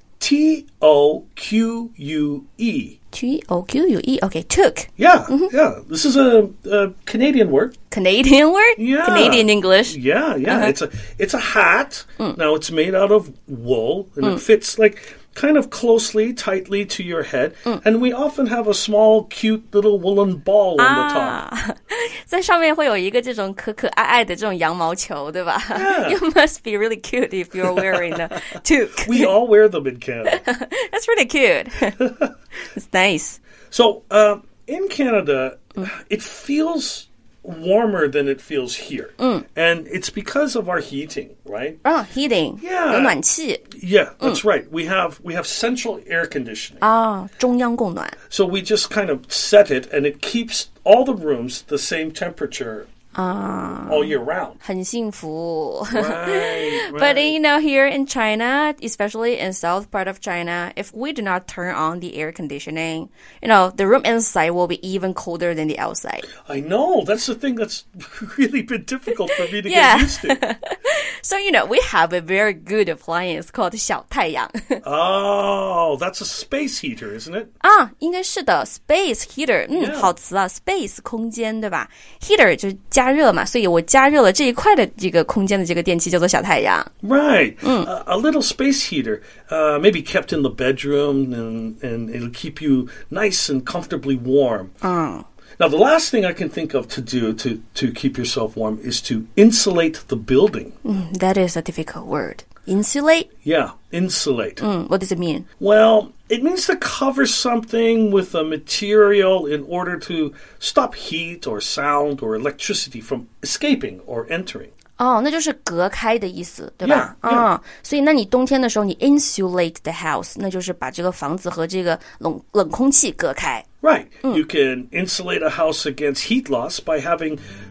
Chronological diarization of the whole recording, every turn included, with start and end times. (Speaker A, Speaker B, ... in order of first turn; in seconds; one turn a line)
Speaker A: 0.2-3.0
Speaker B: 3.1-5.5
Speaker A: 5.0-7.7
Speaker B: 7.9-10.7
Speaker A: 8.8-21.4
Speaker B: 20.8-29.3
Speaker A: 25.7-26.2
Speaker A: 27.6-30.4
Speaker B: 30.3-32.1
Speaker A: 32.0-32.3
Speaker B: 32.7-33.4
Speaker A: 33.7-41.8
Speaker B: 39.2-39.4
Speaker B: 41.8-43.7
Speaker A: 42.6-43.1
Speaker A: 43.7-46.8
Speaker B: 46.8-48.1
Speaker A: 48.3-52.9
Speaker B: 53.1-66.3
Speaker A: 53.7-54.6
Speaker A: 55.9-57.4
Speaker A: 66.4-70.4
Speaker B: 69.4-74.8
Speaker A: 74.8-77.5
Speaker B: 77.6-86.9
Speaker A: 79.7-80.1
Speaker A: 87.0-94.7
Speaker B: 87.6-87.9
Speaker B: 94.8-95.2
Speaker A: 95.6-100.7
Speaker B: 100.8-103.3
Speaker A: 103.4-104.6
Speaker B: 104.6-105.5
Speaker A: 105.6-114.7
Speaker B: 115.0-123.7
Speaker A: 116.8-117.5
Speaker A: 123.8-127.4